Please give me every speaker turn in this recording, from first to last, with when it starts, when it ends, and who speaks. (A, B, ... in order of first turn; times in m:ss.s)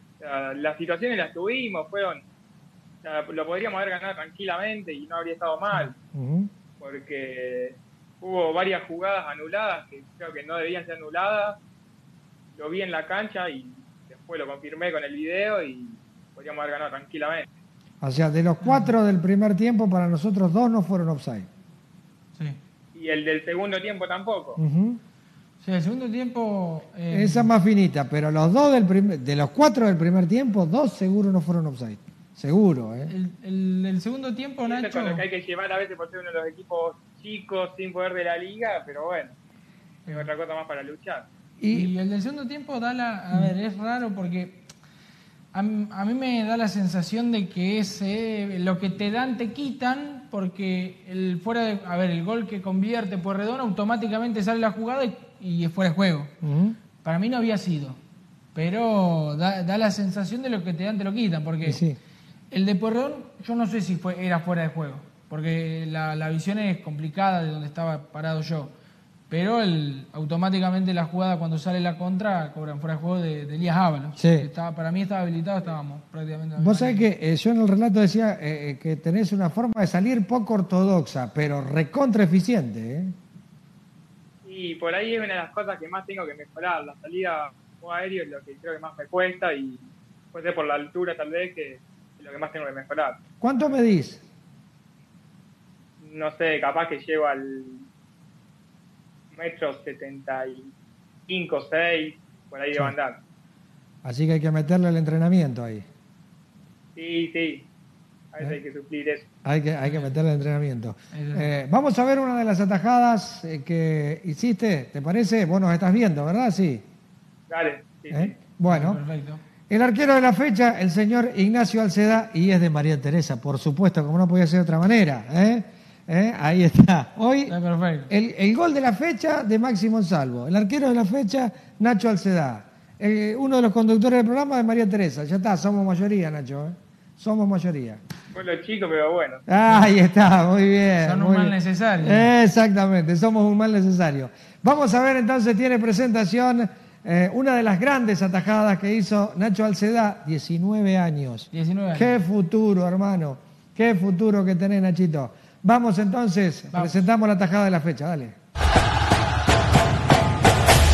0:00.2-0:02.2 A
0:03.0-0:05.9 A
0:06.1-0:06.5 B
0:06.8-0:11.6 A
0:12.5-0:17.5 A
0:18.0-0:21.5 B
0:18.6-0:18.9 C
0:22.9-0:24.6 A
0:24.6-0:25.0 B
0:25.6-0:27.5 C
0:27.1-0:33.1 B
0:33.1-0:35.2 C
0:34.6-0:39.4 A
0:40.0-0:40.3 C
0:40.1-0:41.3 A
0:41.6-0:41.9 B
0:41.7-0:44.6 C
0:45.5-0:56.3 C
0:56.4-0:56.8 B
0:57.0-0:58.0 C
0:58.5-1:01.8 C
1:01.6-1:02.0 B
1:02.5-1:08.7 C
1:09.3-1:17.1 C
1:14.2-1:14.5 B
1:16.6-1:23.2 B
1:24.4-1:33.2 A
1:33.4-1:34.2 B
1:36.0-1:37.8 A
1:39.3-1:40.7 A
1:41.3-1:43.2 A
1:44.0-1:45.9 B
1:47.0-1:47.7 A
1:48.3-1:49.3 A
1:49.4-1:56.8 B
1:49.8-1:50.2 C
1:51.1-1:51.5 C
1:57.5-1:58.3 A
1:58.1-1:59.0 B
1:58.7-1:59.4 C
1:59.7-2:07.6 B
2:07.5-2:08.1 C
2:08.1-2:18.0 B
2:18.3-2:19.4 A
2:19.5-2:38.4 B
2:19.5-2:19.9 C
2:21.0-2:22.3 C
2:31.5-2:32.2 C